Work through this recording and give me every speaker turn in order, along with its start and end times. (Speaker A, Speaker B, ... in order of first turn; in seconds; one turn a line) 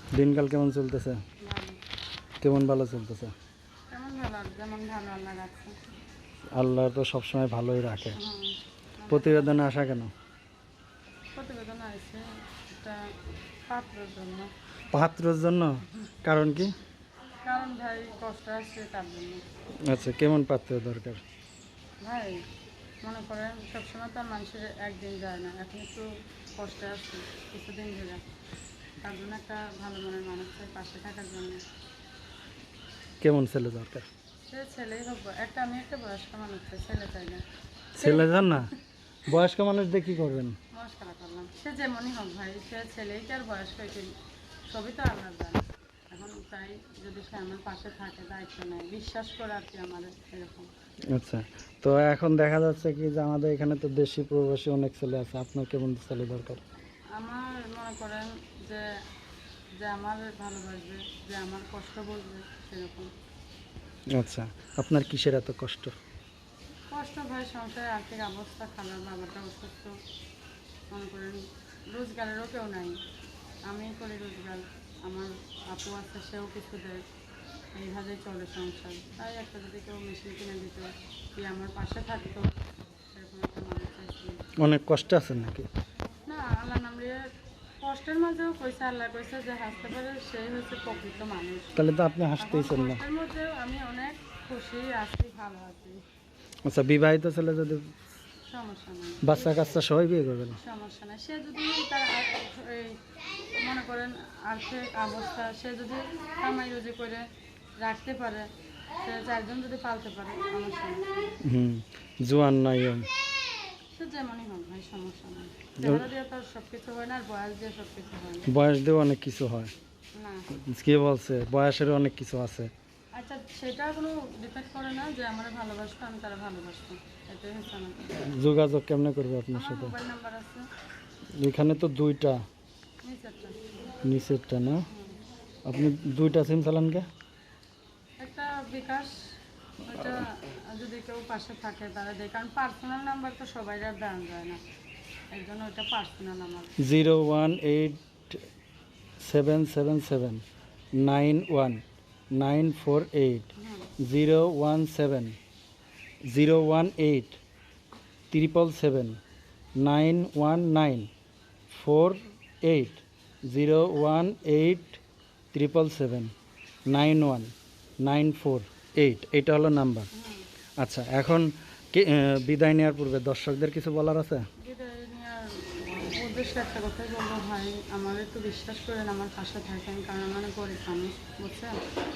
Speaker A: 0.1-1.2
Speaker B: 1.4-1.8
Speaker A: 2.4-3.3
Speaker B: 3.9-5.8
Speaker A: 6.5-8.2
Speaker B: 8.2-9.6
Speaker A: 9.1-10.1
Speaker B: 11.3-13.1
Speaker B: 13.7-14.5
Speaker A: 14.9-16.7
Speaker B: 17.4-19.4
Speaker A: 19.8-21.2
Speaker B: 22.0-22.4
Speaker B: 23.0-28.2
Speaker B: 29.0-31.6
Speaker A: 33.2-34.1
Speaker B: 34.5-37.4
Speaker A: 38.0-38.7
Speaker B: 38.0-38.7
Speaker A: 39.3-40.6
Speaker B: 40.7-44.1
Speaker B: 44.7-50.7
Speaker A: 51.1-56.6
Speaker B: 57.1-58.9
Speaker B: 59.8-63.1
Speaker A: 64.1-66.0
Speaker B: 66.9-70.0
Speaker B: 70.9-73.0
Speaker B: 73.7-77.0
Speaker B: 77.8-82.5
Speaker B: 83.1-84.4
Speaker A: 84.6-85.7
Speaker B: 86.3-87.2
Speaker B: 87.8-91.8
Speaker A: 91.8-93.0
Speaker B: 92.4-96.0
Speaker A: 96.7-97.9
Speaker B: 98.5-99.6
Speaker A: 99.2-100.6
Speaker B: 100.6-103.0
Speaker B: 103.5-107.2
Speaker B: 107.8-108.5
Speaker B: 109.0-111.3
Speaker A: 111.4-113.1
Speaker B: 113.9-118.5
Speaker A: 115.8-116.1
Speaker A: 118.5-119.7
Speaker B: 120.2-120.5
Speaker A: 120.6-122.7
Speaker B: 123.1-128.0
Speaker A: 128.2-129.9
Speaker B: 129.5-130.7
Speaker A: 131.4-132.4
Speaker B: 133.0-133.8
Speaker A: 134.0-134.9
Speaker B: 134.9-135.2
Speaker A: 135.7-137.1
Speaker B: 138.2-139.2
Speaker B: 139.8-144.6
Speaker B: 145.3-146.7
Speaker A: 146.8-148.4
Speaker A: 149.2-150.4
Speaker A: 151.0-151.8
Speaker A: 152.3-155.4
Speaker B: 153.6-153.9
Speaker A: 156.3-157.4
Speaker A: 158.3-159.2
Speaker A: 159.8-161.1
Speaker A: 161.7-165.0
Speaker A: 165.5-166.3
Speaker A: 166.9-167.5
Speaker A: 168.0-170.1
Speaker B: 170.1-170.5
Speaker A: 170.8-174.4
Speaker B: 174.6-181.8